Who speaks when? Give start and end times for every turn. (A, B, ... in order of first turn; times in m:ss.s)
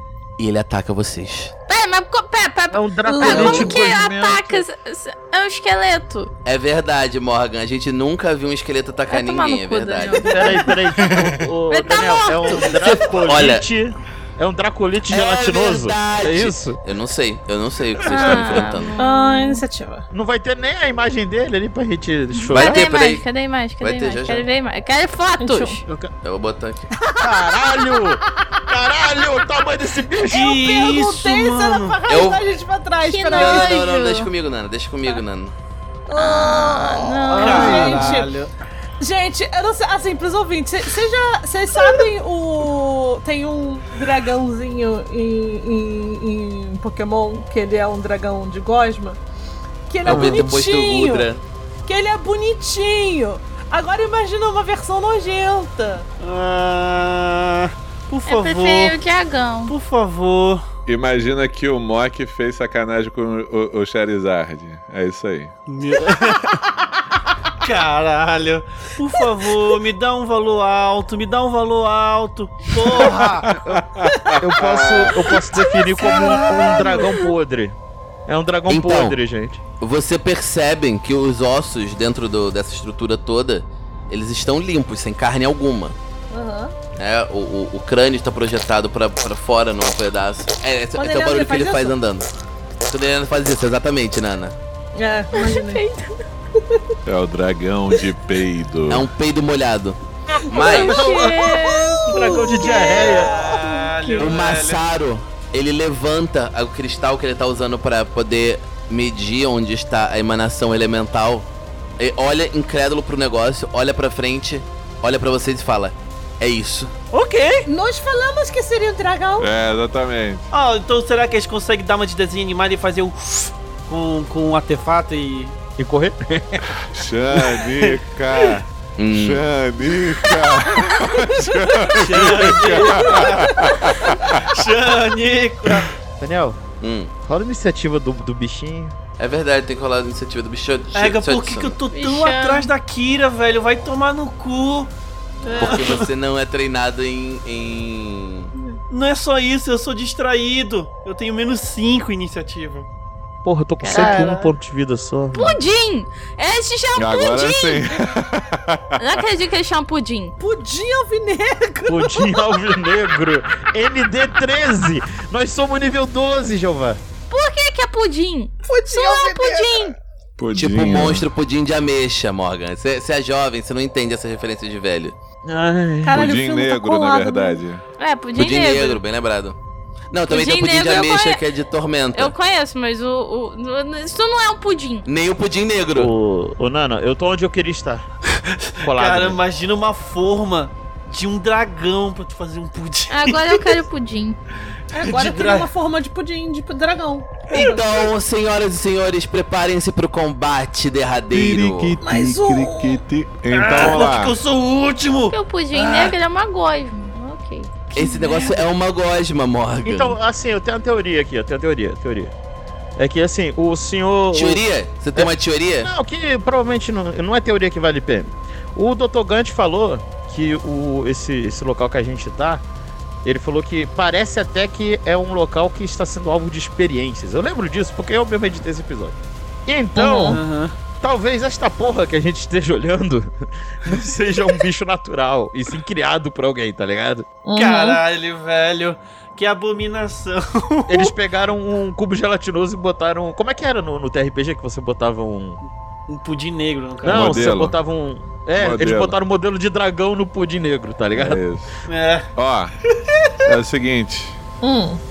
0:00.4-0:01.5 A
0:01.7-0:06.3 B
0:02.7-0:04.6 C
0:03.1-0:03.8 D
0:06.4-0:10.5 A
0:09.1-0:10.8 B
0:10.2-0:16.8 C
0:11.7-0:12.8 B
0:12.6-0:13.7 A
0:15.1-0:18.9 A
0:18.0-0:19.6 B
0:19.0-0:20.1 D
0:20.1-0:22.8 C
0:22.4-0:25.8 B
0:22.5-0:23.2 A
0:23.8-0:24.4 A
0:25.4-0:25.8 D
0:26.2-0:26.9 A
0:27.1-0:28.0 D
0:27.2-0:30.6 C
0:30.3-0:32.0 E
0:30.3-0:33.7 D
0:32.1-0:32.4 A
0:33.0-0:34.3 B
0:33.3-0:35.5 A
0:36.1-0:38.3 D
0:36.2-0:38.0 B
0:37.3-0:38.5 E
0:37.4-0:38.1 C
0:39.0-0:49.2 D
0:49.9-0:51.3 D
0:50.0-0:51.4 A
0:50.0-0:50.5 C
0:51.8-0:56.1 D
0:56.2-0:59.0 E
0:58.3-0:59.7 B
0:59.6-1:00.6 E
1:00.8-1:05.5 F
1:05.7-1:06.6 E
1:07.6-1:13.6 E
1:13.0-1:15.3 F
1:14.4-1:19.6 C
1:15.7-1:17.2 D
1:18.7-1:19.2 A
1:19.8-1:26.0 A
1:26.3-1:26.7 D
1:27.0-1:32.3 A
1:31.0-1:32.0 D
1:32.9-1:34.6 A
1:35.0-1:35.8 D
1:35.3-1:36.2 B
1:37.0-1:39.1 F
1:38.9-1:41.2 A
1:40.5-1:43.2 B
1:40.6-1:43.9 D
1:40.6-1:41.2 C
1:42.1-1:43.3 C
1:42.8-1:44.8 E
1:44.2-1:56.9 A
1:57.1-1:57.7 C
1:57.6-1:59.5 D
1:59.4-2:00.5 F
2:00.5-2:05.6 E
2:05.8-2:06.7 C
2:06.8-2:14.6 F
2:09.0-2:09.4 A
2:11.9-2:15.9 E
2:16.2-2:16.6 C
2:16.8-2:17.1 A
2:17.2-2:19.0 C
2:19.2-2:21.8 A
2:20.9-2:24.9 E
2:21.9-2:22.7 B
2:25.4-2:26.1 E
2:25.4-2:25.8 D
2:25.6-2:28.5 A
2:28.9-2:32.9 E
2:33.4-2:35.6 C
2:33.8-2:34.4 B
2:33.9-2:34.5 E
2:35.3-2:38.0 B
2:37.0-2:39.2 F
2:39.0-2:40.4 B
2:40.4-2:42.5 D
2:41.8-2:47.0 C
2:47.3-2:50.0 B
2:48.7-2:49.9 D
2:50.4-2:51.3 F
2:50.5-2:55.2 A
2:55.4-2:56.3 C
2:56.0-2:57.6 D
2:56.1-2:57.8 F
2:58.0-2:59.0 B
2:58.4-2:59.6 A
3:00.1-3:02.3 A
3:00.3-3:01.4 B
3:02.1-3:05.0 B
3:05.0-3:06.1 A
3:05.9-3:08.0 C
3:08.8-3:13.8 E
3:08.8-3:09.4 C
3:13.1-3:14.4 B
3:14.9-3:17.8 D
3:15.0-3:15.7 E
3:17.5-3:22.0 A
3:21.3-3:24.4 F
3:22.0-3:23.0 D
3:23.5-3:26.1 E
3:25.3-3:28.5 B
3:27.9-3:30.2 A
3:29.8-3:32.3 C
3:33.0-3:34.6 C
3:34.3-3:35.9 A
3:35.1-3:42.6 C
3:43.2-3:50.4 C
3:50.0-3:50.4 D
3:50.3-3:50.8 E
3:51.0-3:57.3 C
3:57.4-3:58.0 D
3:57.5-4:01.1 E
4:00.9-4:05.6 C
4:06.1-4:07.5 E
4:07.0-4:11.4 C
4:07.1-4:07.8 F
4:08.6-4:09.2 F
4:11.1-4:11.8 F
4:11.9-4:12.3 E
4:12.3-4:12.7 F
4:13.4-4:14.4 F
4:14.6-4:15.0 D